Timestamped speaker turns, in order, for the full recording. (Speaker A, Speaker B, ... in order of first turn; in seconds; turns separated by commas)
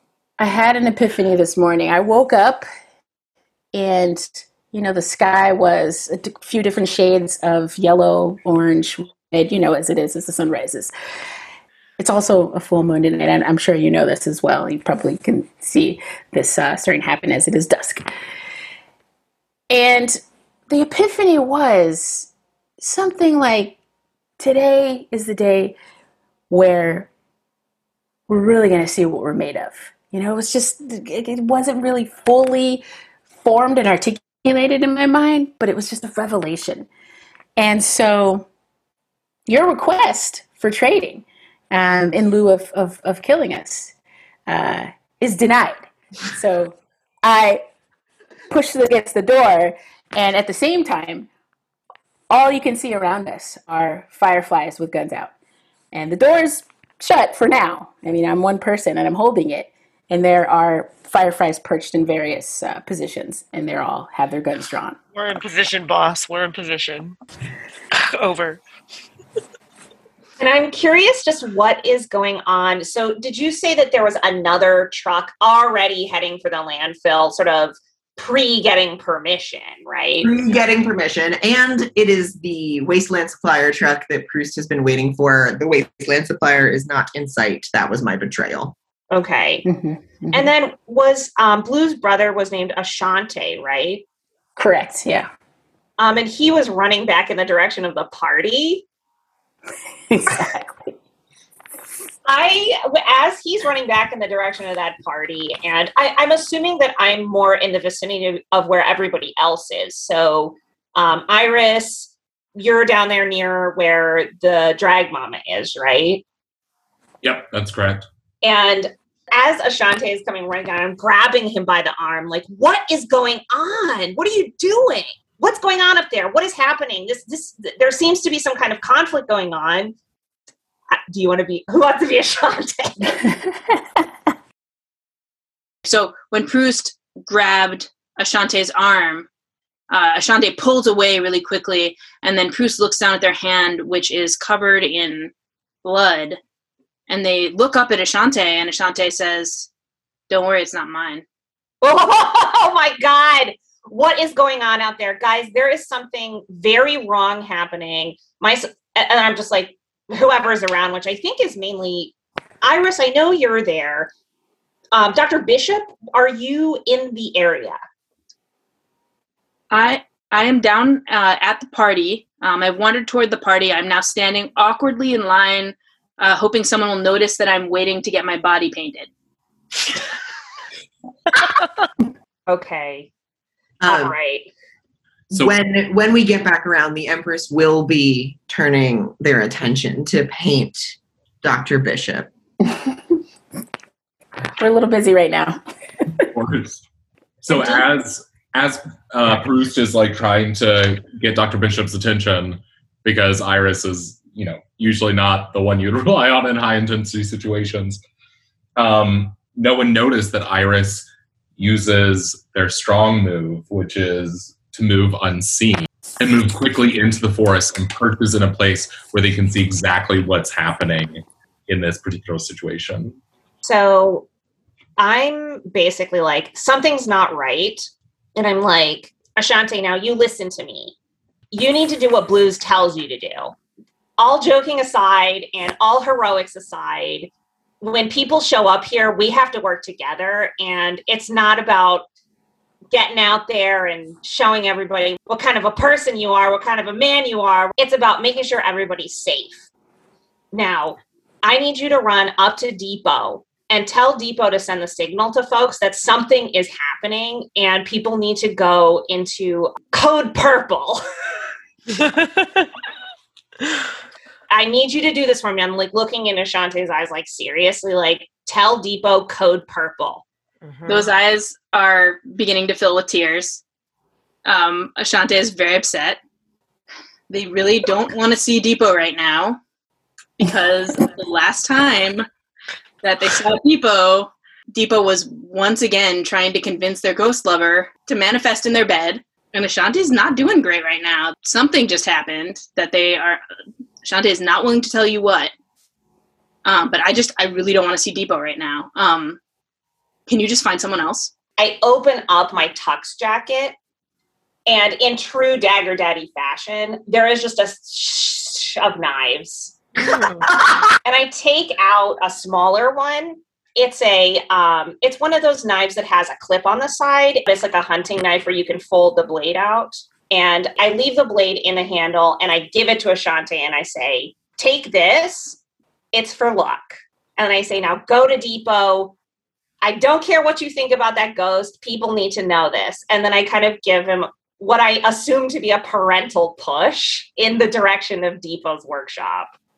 Speaker A: 0.4-2.6, Speaker A: 3.7-10.9, Speaker A: 12.0-18.1, Speaker A: 19.7-20.2, Speaker A: 20.7-22.3, Speaker A: 22.8-23.8, Speaker A: 24.4-25.8, Speaker A: 26.5-27.1, Speaker A: 28.3-32.8, Speaker A: 33.4-36.9, Speaker A: 37.6-38.5, Speaker A: 39.5-43.9, Speaker A: 44.5-47.6, Speaker A: 48.5-51.3, Speaker A: 52.3-55.3, Speaker A: 55.9-65.0, Speaker B: 65.1-67.2, Speaker B: 67.9-68.6, Speaker C: 70.4-80.4, Speaker D: 80.2-88.7, Speaker C: 89.1-89.6, Speaker A: 89.6-90.5, Speaker C: 90.3-94.0, Speaker A: 94.6-95.3, Speaker C: 96.0-98.8, Speaker A: 100.1-100.9, Speaker C: 102.2-116.2, Speaker E: 117.2-118.1, Speaker C: 118.4-129.9, Speaker C: 130.9-133.2, Speaker F: 135.8-139.3, Speaker F: 139.9-145.3, Speaker F: 145.8-146.4, Speaker F: 147.1-149.7, Speaker F: 150.3-151.2, Speaker C: 151.8-164.1, Speaker C: 164.9-167.8, Speaker F: 169.7-179.1, Speaker C: 182.5-183.1, Speaker D: 183.8-184.2, Speaker C: 183.9-184.5, Speaker D: 185.3-192.3, Speaker A: 194.6-195.6, Speaker E: 196.3-196.8, Speaker E: 197.4-208.0, Speaker E: 208.8-211.1, Speaker E: 211.6-223.2, Speaker C: 223.6-224.3, Speaker C: 225.0-230.9, Speaker C: 231.5-233.6, Speaker C: 234.2-242.1, Speaker C: 242.9-249.7, Speaker C: 250.5-261.0, Speaker B: 261.9-262.7, Speaker C: 264.5-270.2, Speaker B: 270.6-271.1, Speaker F: 270.9-273.6, Speaker F: 274.4-276.2, Speaker F: 277.3-279.6, Speaker F: 280.4-282.2, Speaker F: 283.0-293.4, Speaker F: 294.0-295.5, Speaker F: 296.6-299.4, Speaker F: 300.3-301.3, Speaker C: 301.6-303.8, Speaker C: 304.7-309.8, Speaker B: 310.0-310.5, Speaker C: 311.0-325.6, Speaker C: 326.1-329.1, Speaker C: 329.8-339.5